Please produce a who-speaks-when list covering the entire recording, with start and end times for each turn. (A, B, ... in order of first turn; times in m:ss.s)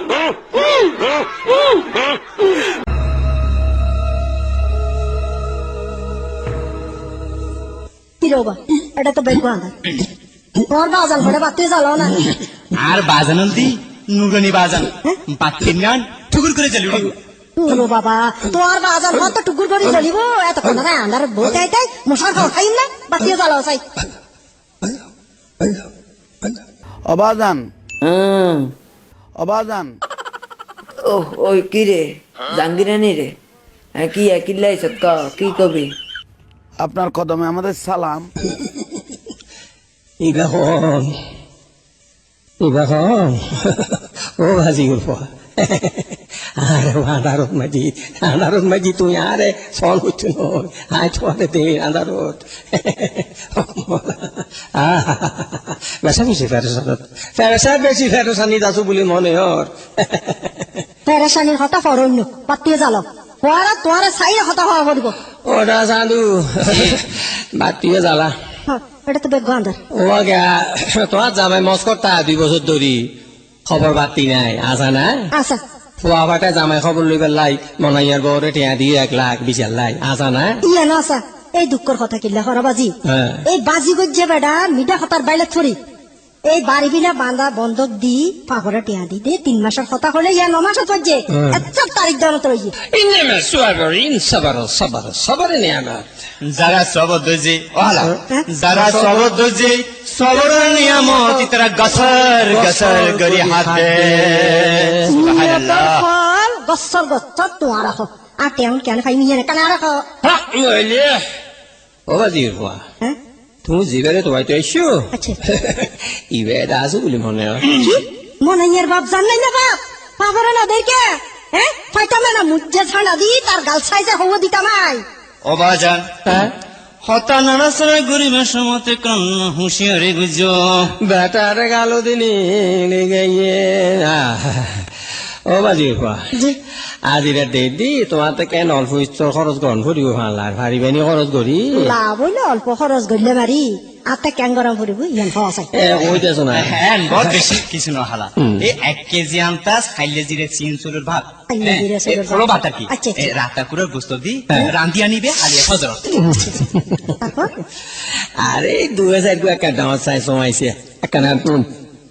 0:08.2-0:10.0 A
0:10.6-0:12.3 A
0:12.7-0:17.1 B
0:17.6-0:23.8 A
0:27.1-0:27.6 C
0:28.0-0:28.6 D
0:29.4-0:29.9 C
0:31.1-0:33.3 D
0:34.0-0:35.9 D
0:36.8-0:38.3 C
0:40.2-0:41.2 E
0:42.6-1:00.7 E
1:01.0-1:05.1 A
1:05.4-1:08.3 E
1:08.7-1:09.8 A
1:09.9-1:13.0 E
1:13.7-1:15.3 E
1:15.3-1:15.6 A
1:16.0-1:20.6 E
1:20.6-1:22.9 A
1:23.1-1:23.4 E
1:23.4-1:25.8 A
1:26.5-1:32.7 A
1:31.3-1:31.6 E
1:32.9-1:36.1 E
1:36.5-1:46.0 B
1:38.7-1:39.2 E
1:42.5-1:44.9 E
1:45.1-1:50.0 A
1:50.2-1:51.2 E
1:52.1-1:52.8 E
1:53.6-1:57.9 E
1:55.1-1:55.4 A
1:57.7-2:01.0 A
2:01.6-2:05.0 A
2:05.4-2:06.5 B
2:07.0-2:10.9 B
2:11.0-2:14.9 E
2:15.5-2:16.3 E
2:17.1-2:21.9 E
2:21.7-2:25.7 A
2:25.7-2:27.4 E
2:26.1-2:36.3 B
2:31.5-2:33.2 A
2:36.3-2:37.2 E
2:37.2-2:37.5 A
2:38.4-2:41.7 E